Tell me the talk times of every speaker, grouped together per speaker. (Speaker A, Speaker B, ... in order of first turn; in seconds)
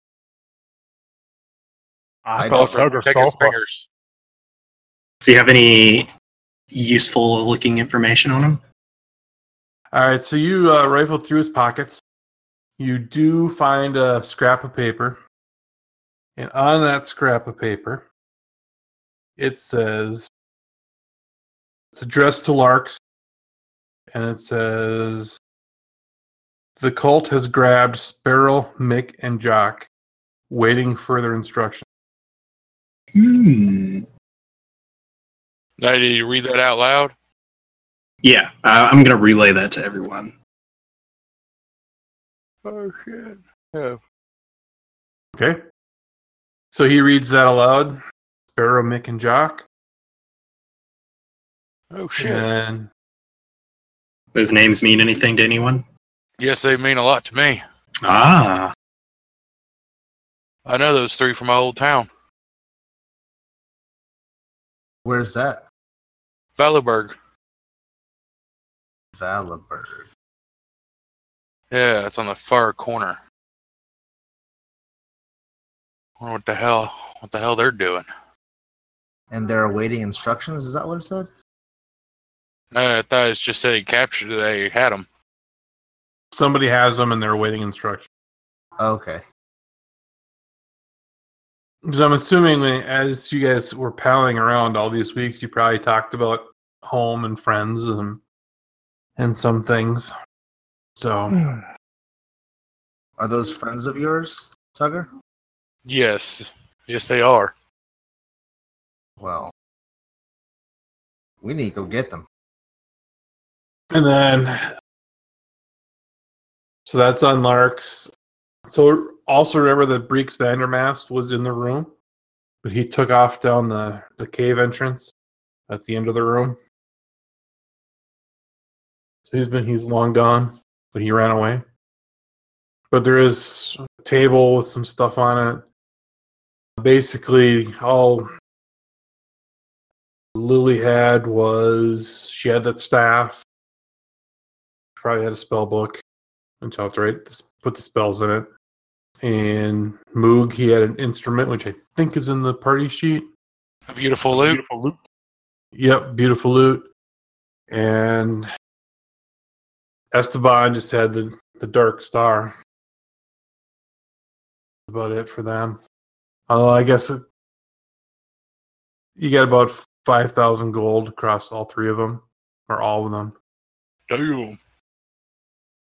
Speaker A: 2.2-3.6, 101.3-101.7, 154.3-155.0
Speaker B: 2.4-2.8, 65.0-65.6, 69.2-70.1, 79.3-81.3, 88.8-89.2, 103.2-105.1, 109.2-109.5, 111.4-112.3
Speaker C: 2.5-3.9, 35.8-37.1, 42.6-44.0, 51.9-52.5, 56.4-57.6, 60.6-62.1, 66.6-67.1, 71.7-73.2, 76.2-78.1, 82.7-85.1, 105.8-107.5, 153.9-154.6, 174.1-174.6
Speaker D: 5.2-6.1, 6.7-8.6, 33.1-34.0, 38.2-40.4, 54.3-55.8, 58.0-58.7
Speaker E: 9.9-12.0, 12.8-15.2, 16.4-18.1, 19.4-20.3, 22.0-23.0, 24.1-25.4, 26.8-29.9, 30.5-31.9, 46.7-48.0, 48.5-49.6, 52.2-52.9, 86.3-88.1, 91.8-98.2, 99.2-100.1, 101.0-101.4, 113.9-114.7, 116.9-118.1, 118.7-121.9, 122.6-125.1, 125.7-126.6, 129.3-131.6, 132.9-135.6, 136.8-138.3, 140.3-143.4, 145.0-146.0, 146.6-148.5, 149.2-153.3, 155.8-156.9, 157.7-158.5, 160.1-162.6, 164.9-165.8, 166.5-167.2, 169.2-173.3